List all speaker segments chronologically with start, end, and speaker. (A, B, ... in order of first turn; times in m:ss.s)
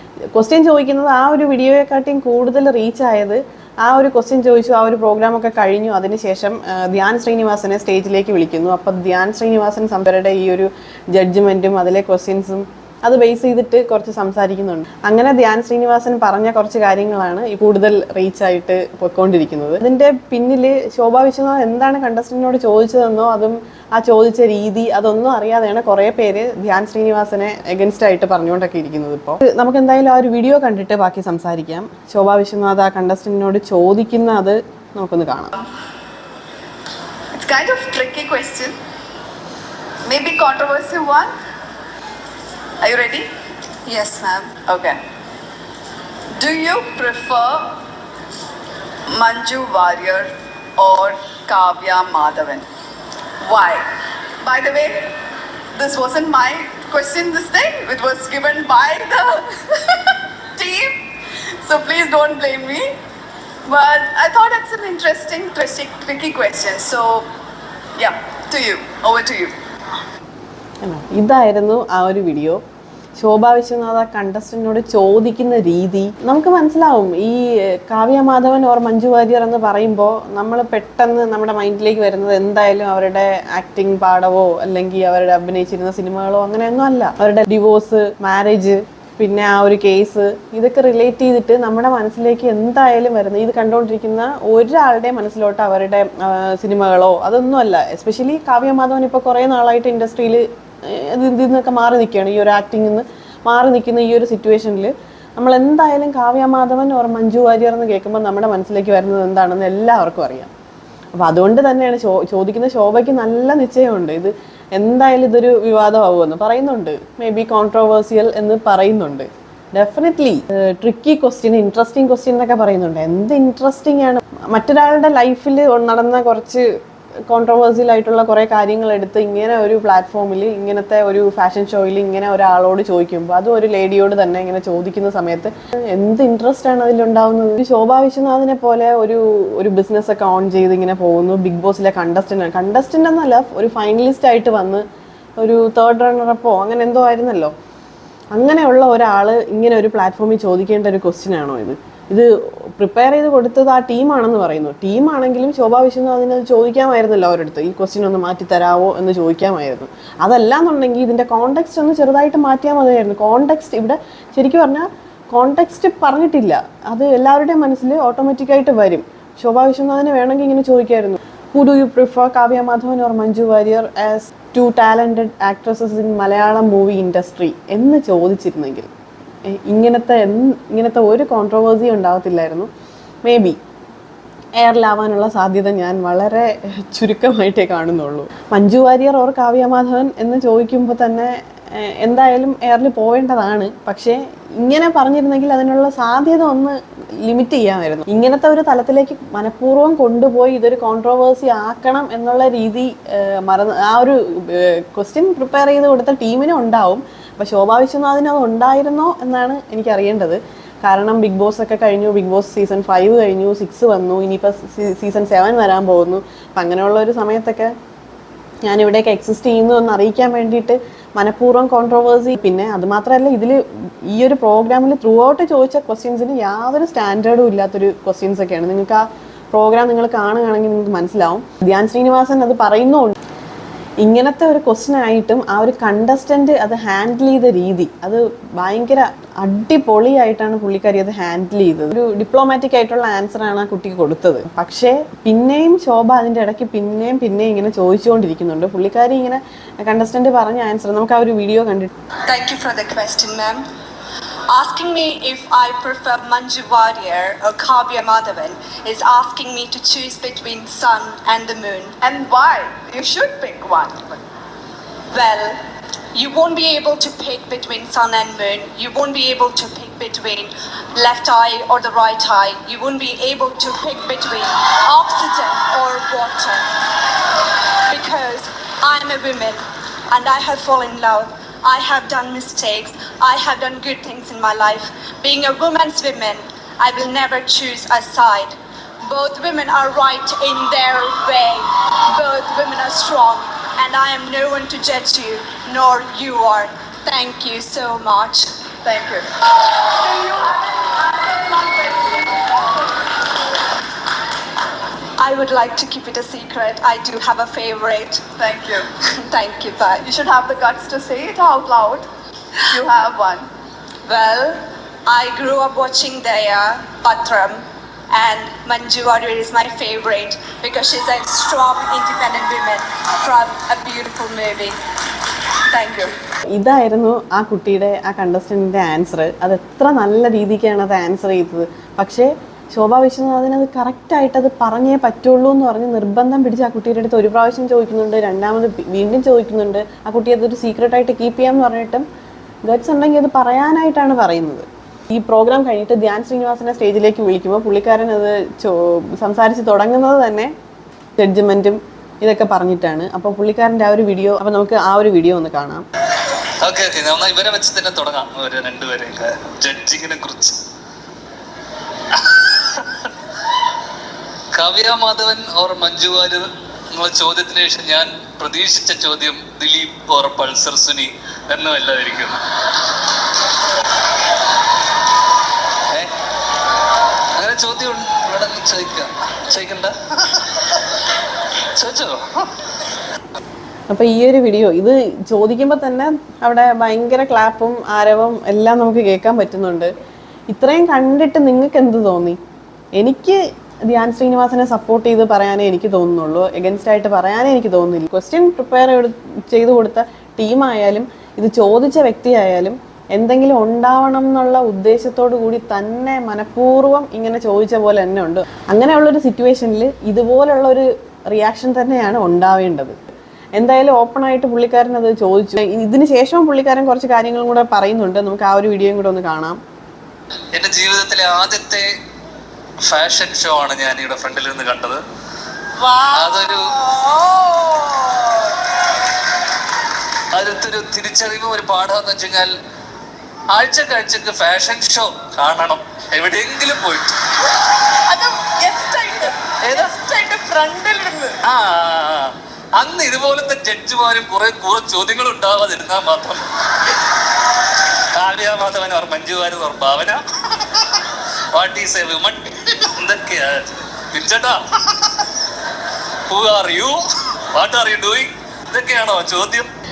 0:00.3-0:35.6 A
0:37.3-0:38.8 B
0:40.0-0:41.3 B
0:42.8-0:43.3 B
0:43.9-0:44.6 C
0:44.6-0:45.0 B
0:46.4-0:47.8 B
0:49.1-0:52.6 B
0:53.4-0:53.9 B
0:54.4-0:55.2 B
0:55.8-1:01.0 B
1:01.6-1:03.0 B
1:03.6-1:07.3 B
1:08.0-1:09.6 B
1:10.8-1:12.6 A
1:13.2-1:50.5 A
1:51.1-2:06.7 A
2:07.3-2:24.8 A
2:25.4-2:27.5 A
2:28.3-2:58.9 A
2:59.5-3:02.7 A
3:03.2-3:03.6 A
3:04.6-3:37.7 A
3:38.6-3:53.1 A
3:54.0-4:11.9 A
4:12.2-4:13.6 C
4:14.5-4:21.9 C
4:22.0-4:24.2 B
4:25.1-4:25.6 C
4:26.1-4:36.7 C
4:37.9-4:58.5 C
4:58.8-4:59.3 B
4:59.8-5:02.9 B
5:05.2-5:08.2 C
5:08.4-5:08.9 B
5:09.2-5:10.0 C
5:10.0-5:12.0 B
5:12.7-5:13.5 B
5:14.0-5:24.8 C
5:25.7-5:26.2 C
5:26.5-5:42.0 A
5:42.6-5:50.5 A
5:51.2-5:55.8 A
5:56.6-6:00.6 D
6:04.6-6:12.4 D
6:17.4-6:20.5 D
6:21.8-6:22.5 D
6:23.9-6:29.9 A
6:30.5-6:32.4 A
6:33.0-6:53.0 A
6:53.5-6:59.6 A
7:00.5-7:01.9 D
7:02.8-7:05.0 D
7:06.1-7:06.7 D
7:10.3-7:12.5 D
7:13.5-7:17.1 D
7:18.1-7:21.3 B
7:21.4-7:26.4 D
7:28.2-7:30.8 D
7:31.5-7:34.6 D
7:36.3-7:37.0 D
7:37.5-7:39.7 D